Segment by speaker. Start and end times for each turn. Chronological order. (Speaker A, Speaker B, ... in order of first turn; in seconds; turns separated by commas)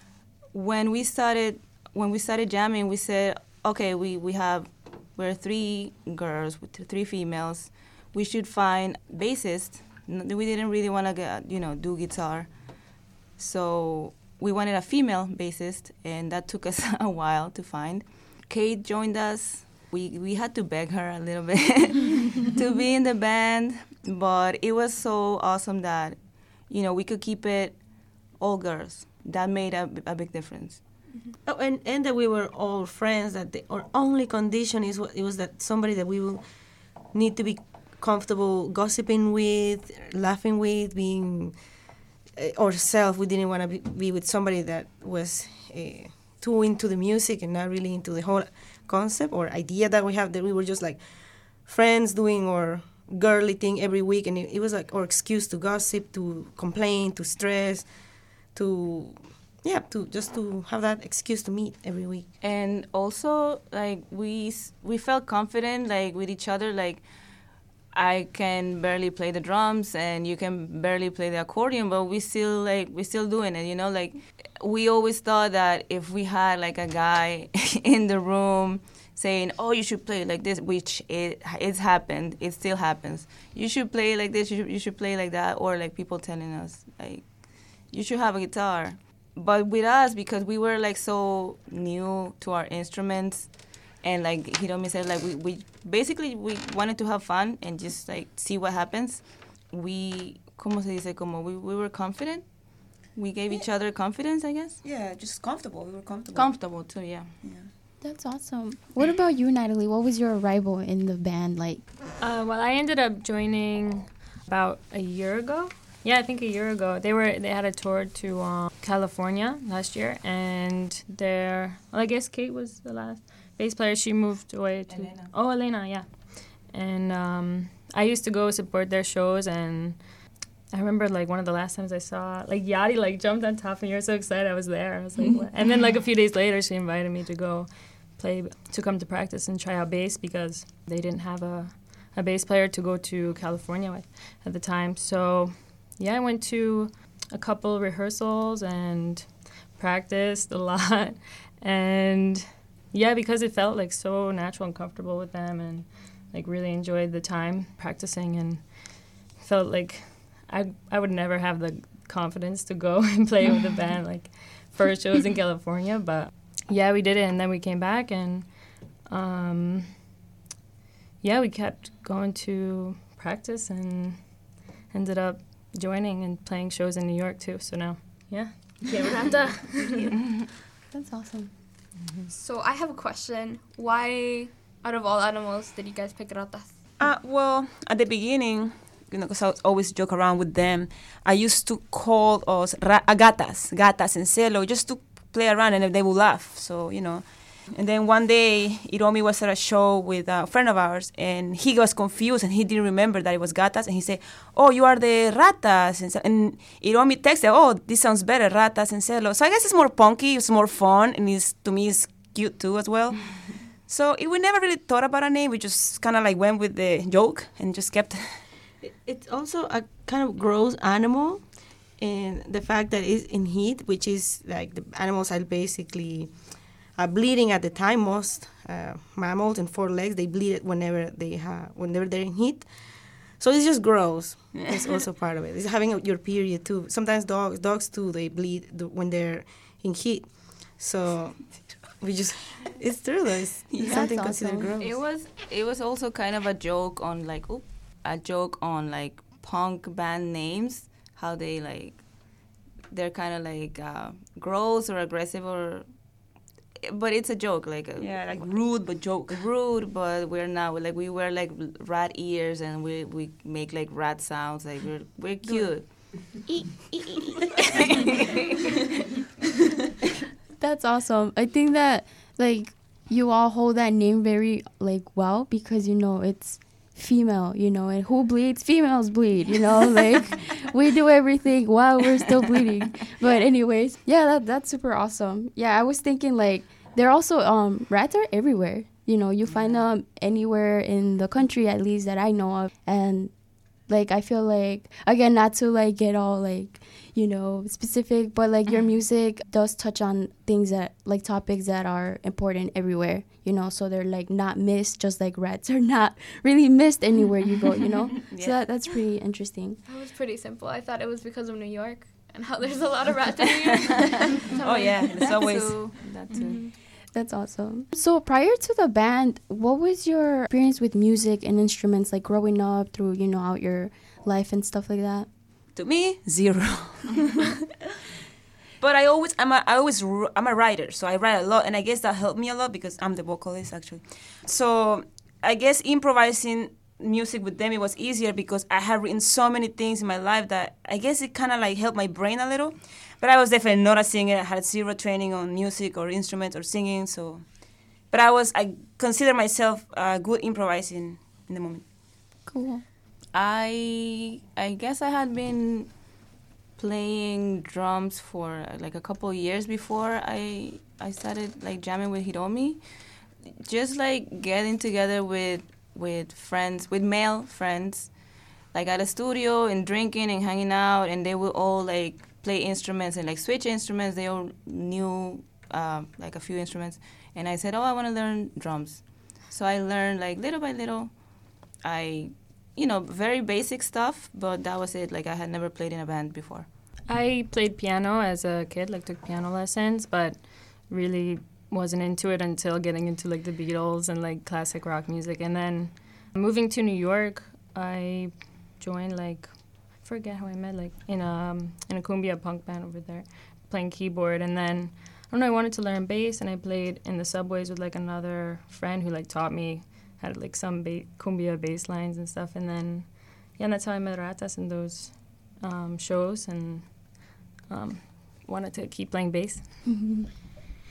Speaker A: 0.5-12.8, Speaker A: 13.4-30.8, Speaker B: 31.4-41.6, Speaker B: 42.3-62.3, Speaker A: 62.4-67.0, Speaker A: 67.9-104.8, Speaker C: 104.8-106.8, Speaker A: 106.3-107.3, Speaker C: 107.4-107.7, Speaker D: 108.0-111.8, Speaker E: 112.2-170.0, Speaker A: 124.9-125.3, Speaker E: 171.2-178.8, Speaker F: 178.8-180.2, Speaker D: 180.9-181.5, Speaker F: 182.3-186.8, Speaker C: 187.0-218.4, Speaker B: 218.8-245.0, Speaker D: 243.8-244.7, Speaker A: 244.8-256.2, Speaker A: 256.9-265.9, Speaker C: 258.0-259.4, Speaker C: 265.4-266.0, Speaker A: 267.6-268.2, Speaker D: 270.6-309.8, Speaker A: 289.5-289.8, Speaker A: 308.3-308.6, Speaker F: 309.9-315.3, Speaker C: 314.6-315.9, Speaker A: 315.2-316.6, Speaker F: 316.3-316.8, Speaker D: 317.1-325.3, Speaker C: 325.7-327.5, Speaker C: 328.8-351.8, Speaker D: 352.4-352.8, Speaker A: 353.3-356.2, Speaker A: 356.8-362.8, Speaker A: 363.4-368.2, Speaker A: 368.7-386.7, Speaker E: 387.1-419.8, Speaker D: 419.8-420.3